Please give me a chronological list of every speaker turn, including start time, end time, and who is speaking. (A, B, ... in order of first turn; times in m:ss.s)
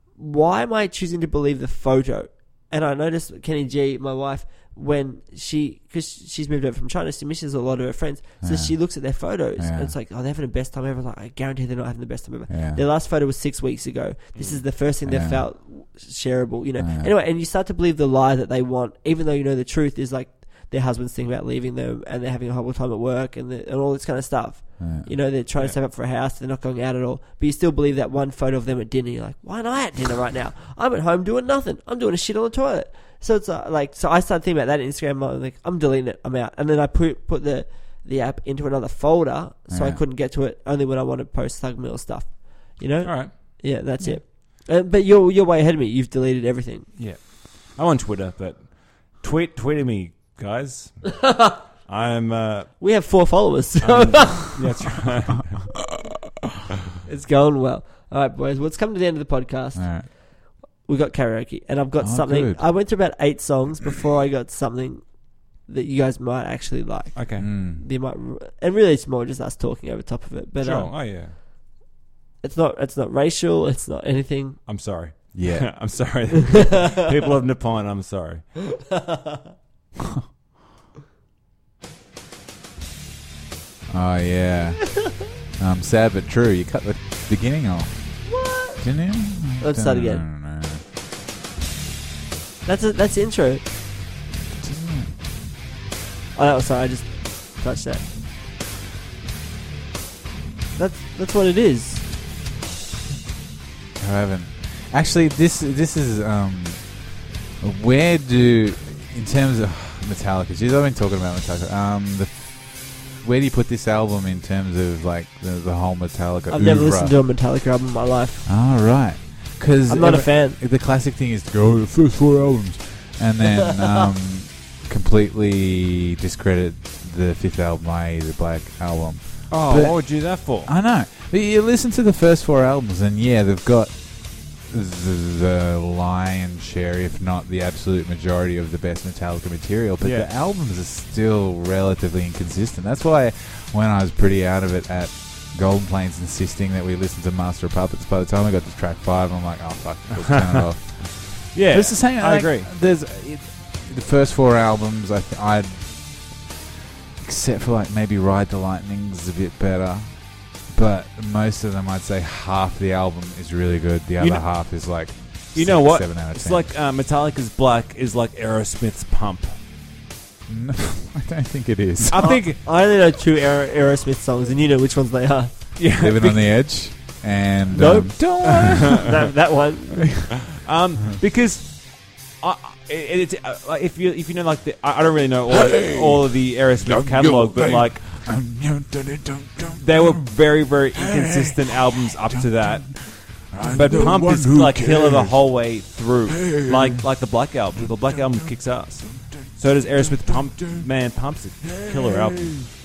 0:00.2-0:46.9 A
0:08.4-0:09.9 B
0:12.5-0:12.8 B
0:14.3-0:14.6 C
0:15.0-0:15.5 B
0:16.8-0:17.1 B
0:24.8-0:25.1 B
0:39.7-0:40.0 B
0:43.0-0:44.2 C
0:47.0-0:52.9 C
0:51.2-0:51.6 A
0:52.8-0:54.7 A
0:53.8-0:55.7 C
0:57.0-1:00.2 A
0:59.7-1:00.1 B
1:00.8-1:10.9 A
1:02.0-1:02.7 B
1:07.1-1:07.5 C
1:07.4-1:07.8 B
1:10.6-1:11.4 C
1:12.4-1:14.6 A
1:14.6-1:18.4 C
1:15.3-1:15.9 B
1:18.9-1:19.4 A
1:23.9-1:30.8 B
1:28.2-1:30.2 A
1:32.6-1:33.6 A
1:34.5-1:35.1 B
1:36.3-1:38.0 A
1:40.8-1:42.0 A
1:43.9-1:57.2 B
1:56.5-1:58.5 A
1:58.4-2:36.5 B
1:59.9-2:00.6 A
2:09.5-2:10.7 C
2:20.0-2:20.3 C
2:31.5-2:32.7 C
2:37.2-2:46.7 B
2:44.2-2:44.8 C
2:45.5-2:49.5 C
2:50.5-2:52.4 B
2:52.0-2:52.6 C
2:52.2-2:55.6 A
2:55.8-2:56.6 C
2:56.0-2:59.1 B
2:57.7-3:00.2 A
2:58.5-2:59.1 C
3:00.0-3:00.3 B
3:00.6-3:08.3 C
3:05.5-3:10.3 B
3:09.8-3:22.6 C
3:10.9-3:15.4 B
3:16.4-3:17.0 B
3:17.8-3:18.5 B
3:19.1-3:19.5 B
3:20.0-3:20.8 B
3:21.7-3:22.7 B